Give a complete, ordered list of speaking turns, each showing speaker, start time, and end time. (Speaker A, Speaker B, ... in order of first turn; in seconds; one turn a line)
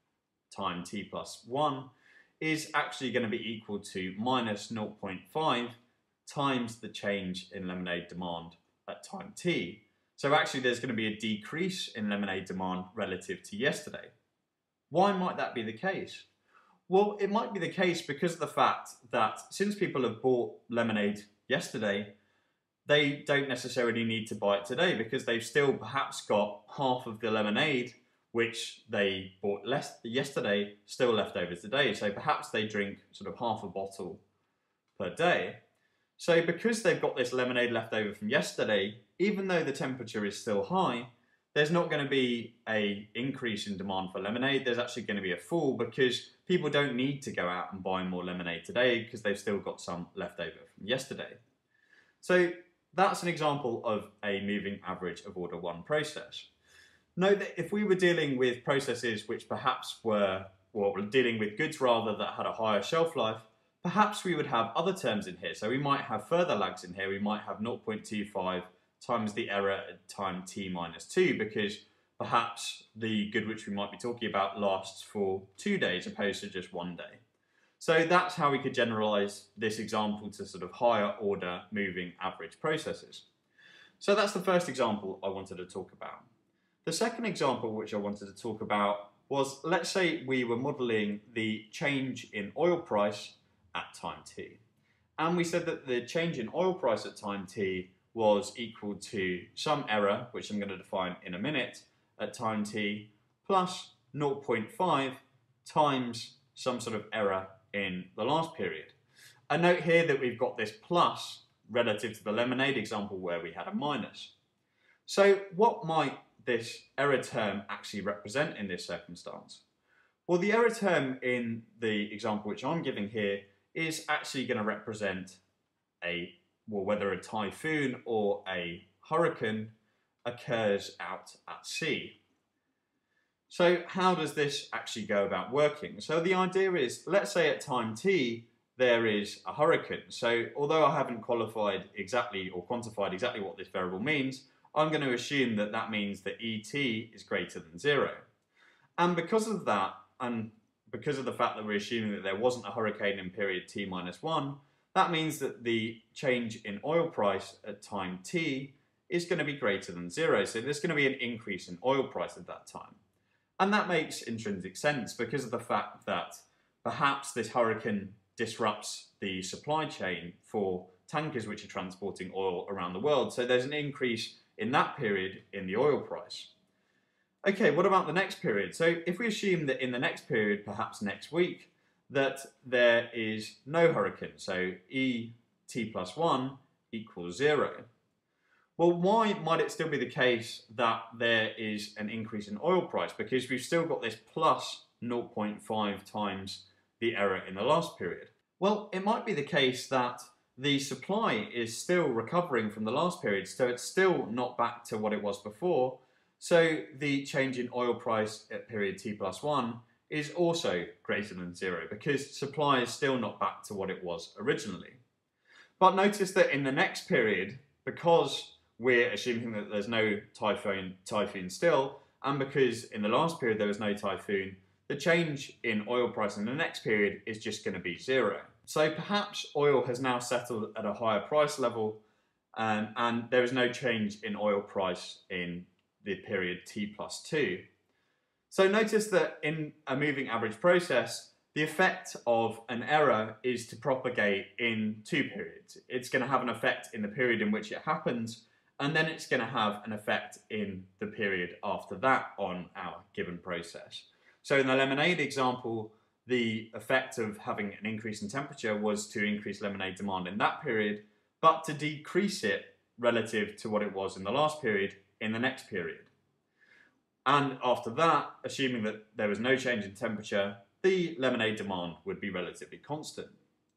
Speaker A: 0.5-14.1
Speaker A: 14.9-16.3
Speaker A: 16.9-22.1
Speaker A: 22.9-34.2
Speaker A: 35.0-35.6
Speaker A: 36.2-51.4
Speaker A: 52.2-56.5
Speaker A: 57.1-77.2
Speaker A: 77.8-83.2
Speaker A: 84.0-86.3
Speaker A: 86.8-94.6
Speaker A: 95.2-108.9
Speaker A: 109.5-114.3
Speaker A: 115.0-119.6
Speaker A: 120.3-125.4
Speaker A: 126.0-129.7
Speaker A: 130.2-132.2
Speaker A: 133.5-148.2
Speaker A: 149.0-163.0
Speaker A: 163.6-176.5
Speaker A: 177.4-187.8
Speaker A: 188.8-215.0
Speaker A: 215.8-232.0
Speaker A: 232.6-237.6
Speaker A: 238.5-266.1
Speaker A: 267.2-273.4